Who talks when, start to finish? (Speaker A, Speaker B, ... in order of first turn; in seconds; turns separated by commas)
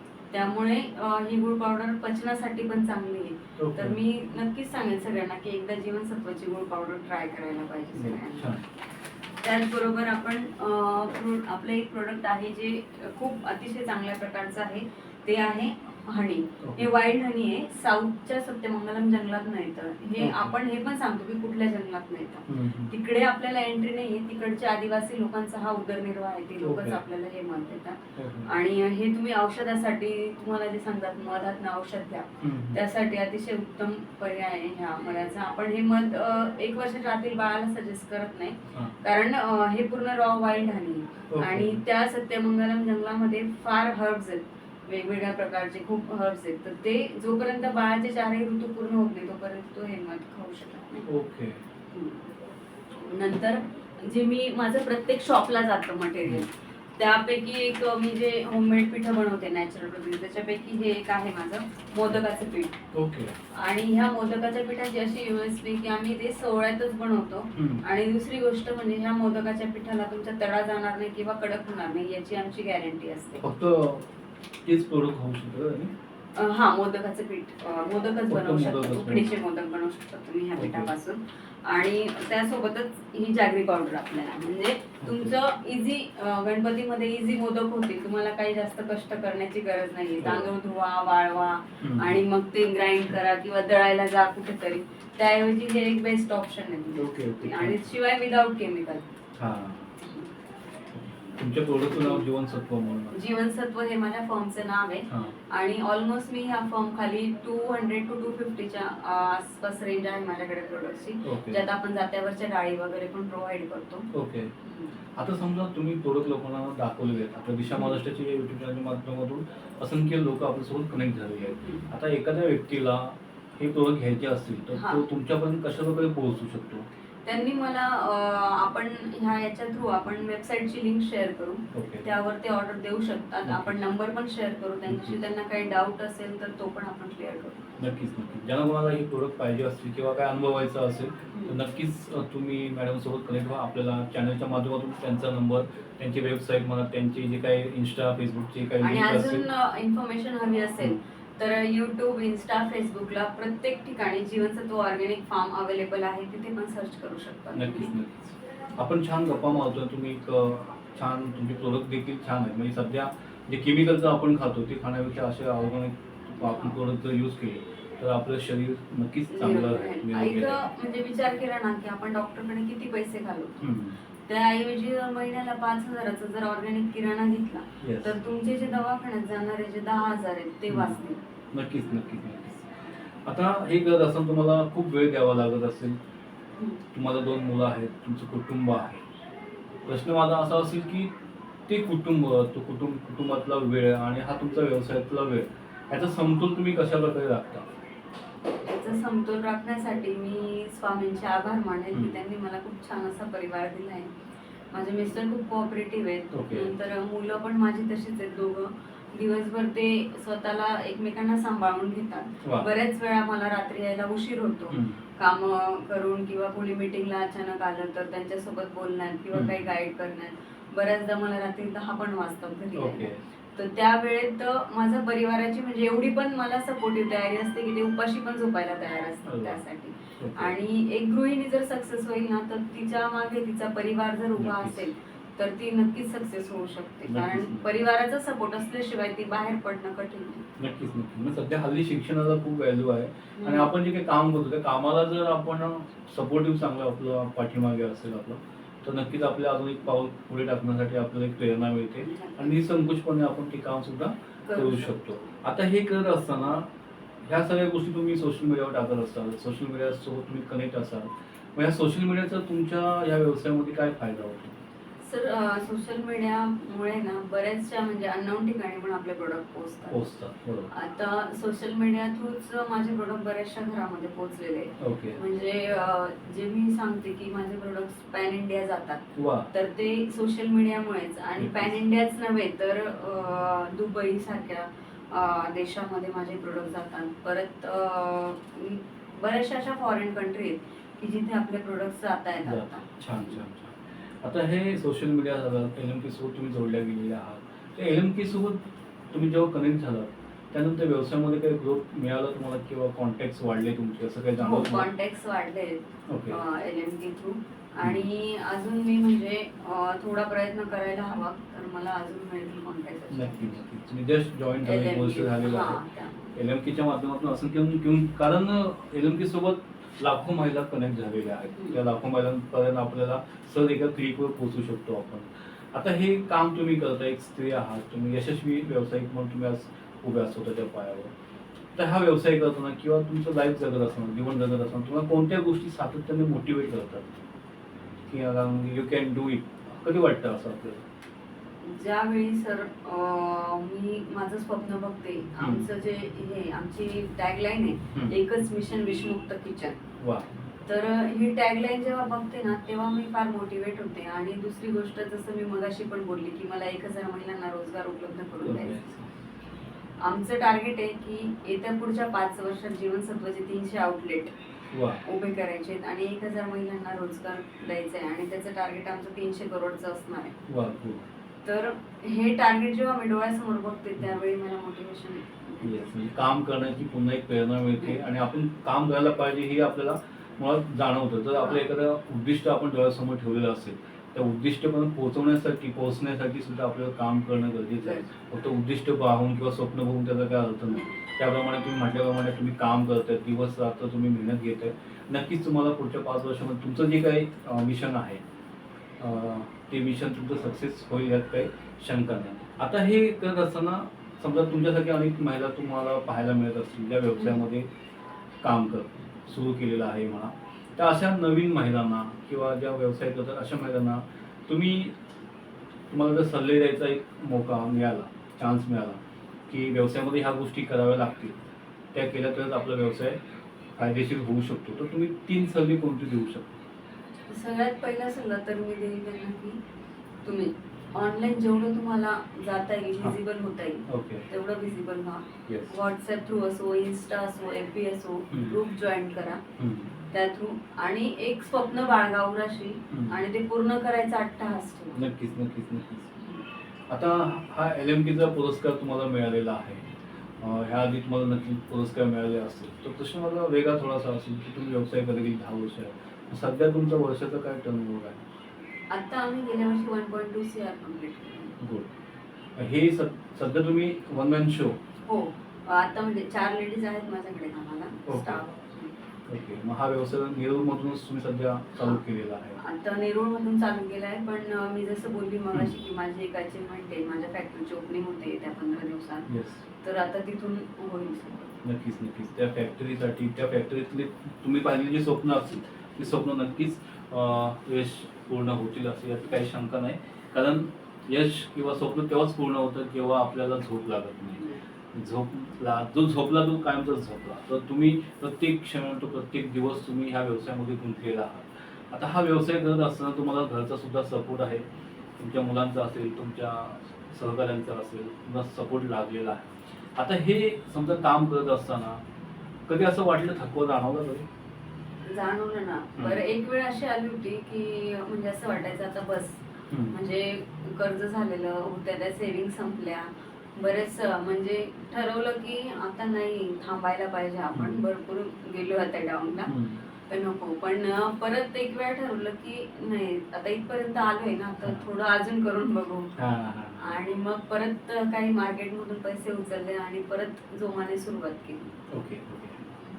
Speaker A: 0.3-8.6, Speaker B: 3.6-4.0, Speaker B: 7.9-8.6, Speaker A: 9.4-51.0, Speaker B: 16.6-16.9, Speaker B: 20.2-20.5, Speaker B: 22.5-22.9, Speaker B: 26.6-27.0, Speaker B: 28.2-28.5, Speaker B: 32.4-32.8, Speaker B: 41.3-41.8, Speaker B: 51.0-51.6, Speaker A: 51.9-52.3, Speaker A: 53.0-62.8, Speaker B: 62.9-63.3, Speaker A: 63.5-73.4, Speaker B: 67.5-67.8, Speaker B: 73.4-74.1, Speaker B: 74.6-75.9, Speaker A: 76.3-99.0, Speaker B: 78.3-79.5, Speaker B: 80.5-80.9, Speaker B: 85.0-85.3, Speaker B: 90.2-90.5, Speaker B: 91.8-92.2, Speaker B: 96.9-97.9, Speaker B: 99.4-99.9, Speaker A: 100.0-100.3, Speaker B: 101.0-103.2, Speaker A: 101.9-102.2, Speaker A: 103.1-114.1, Speaker B: 105.1-105.3, Speaker B: 111.2-111.6, Speaker B: 114.1-114.5, Speaker A: 114.6-115.0, Speaker B: 115.2-126.8, Speaker A: 117.7-118.0, Speaker A: 121.6-121.8, Speaker A: 124.7-125.0, Speaker A: 127.2-137.7, Speaker B: 131.7-132.0, Speaker B: 133.4-133.8, Speaker B: 134.9-135.2, Speaker B: 137.8-149.4, Speaker A: 141.3-141.6, Speaker A: 148.8-157.9, Speaker B: 157.5-170.6, Speaker A: 166.4-166.8, Speaker A: 169.3-173.7, Speaker B: 173.6-174.0, Speaker A: 174.3-181.2, Speaker B: 177.8-178.2, Speaker B: 180.7-181.0, Speaker B: 181.5-186.0, Speaker B: 186.9-189.0, Speaker B: 189.8-191.1, Speaker B: 191.7-197.7, Speaker A: 198.6-204.1, Speaker B: 201.9-202.2, Speaker A: 204.7-240.5, Speaker B: 206.3-206.7, Speaker B: 214.7-215.0, Speaker B: 219.3-219.6, Speaker B: 222.7-223.2, Speaker B: 229.2-229.6, Speaker B: 230.2-230.5, Speaker B: 234.4-234.8, Speaker B: 237.1-237.7, Speaker B: 240.6-256.7, Speaker A: 243.4-243.7, Speaker A: 252.0-252.6, Speaker A: 254.4-255.0, Speaker B: 257.2-264.6, Speaker A: 265.0-270.1, Speaker B: 269.9-270.7, Speaker A: 270.7-292.9, Speaker B: 274.8-275.2, Speaker B: 279.1-279.5, Speaker B: 281.4-281.7, Speaker B: 292.4-304.9, Speaker A: 304.4-313.6, Speaker B: 306.1-306.4, Speaker B: 313.1-315.8, Speaker A: 314.6-316.3, Speaker B: 316.3-331.1, Speaker A: 321.6-321.8, Speaker B: 331.8-337.1, Speaker B: 338.1-340.8, Speaker A: 341.6-349.8, Speaker B: 345.4-345.7, Speaker B: 350.0-350.2, Speaker A: 350.6-359.0, Speaker B: 358.4-359.1, Speaker A: 360.0-364.3, Speaker B: 364.7-365.0, Speaker A: 365.0-370.3, Speaker B: 370.5-371.1, Speaker A: 371.4-375.9, Speaker B: 375.6-398.2, Speaker A: 381.4-381.7, Speaker A: 387.8-388.1, Speaker B: 399.0-407.6, Speaker B: 408.4-414.9, Speaker B: 415.9-421.4, Speaker B: 421.9-423.2, Speaker B: 423.8-426.6, Speaker A: 427.3-429.6, Speaker A: 430.2-439.4, Speaker B: 433.9-434.2, Speaker B: 435.5-435.7, Speaker B: 438.3-438.6, Speaker B: 439.6-439.9, Speaker A: 440.1-445.1, Speaker B: 442.9-443.2, Speaker B: 444.9-446.1, Speaker B: 446.9-449.8, Speaker B: 450.4-458.2, Speaker A: 458.9-461.6, Speaker B: 461.6-461.9, Speaker B: 462.6-464.8, Speaker A: 465.1-468.9, Speaker B: 468.1-468.4, Speaker B: 469.3-472.6, Speaker A: 472.6-479.3, Speaker B: 479.3-479.6, Speaker A: 479.8-481.6, Speaker B: 481.6-504.6, Speaker B: 505.2-512.0, Speaker B: 512.7-514.2, Speaker A: 515.0-529.5, Speaker B: 516.0-516.2, Speaker B: 519.7-520.0, Speaker B: 527.5-527.8, Speaker B: 529.5-529.8, Speaker A: 530.1-536.1, Speaker B: 536.1-537.0, Speaker A: 536.8-541.8, Speaker B: 541.9-542.6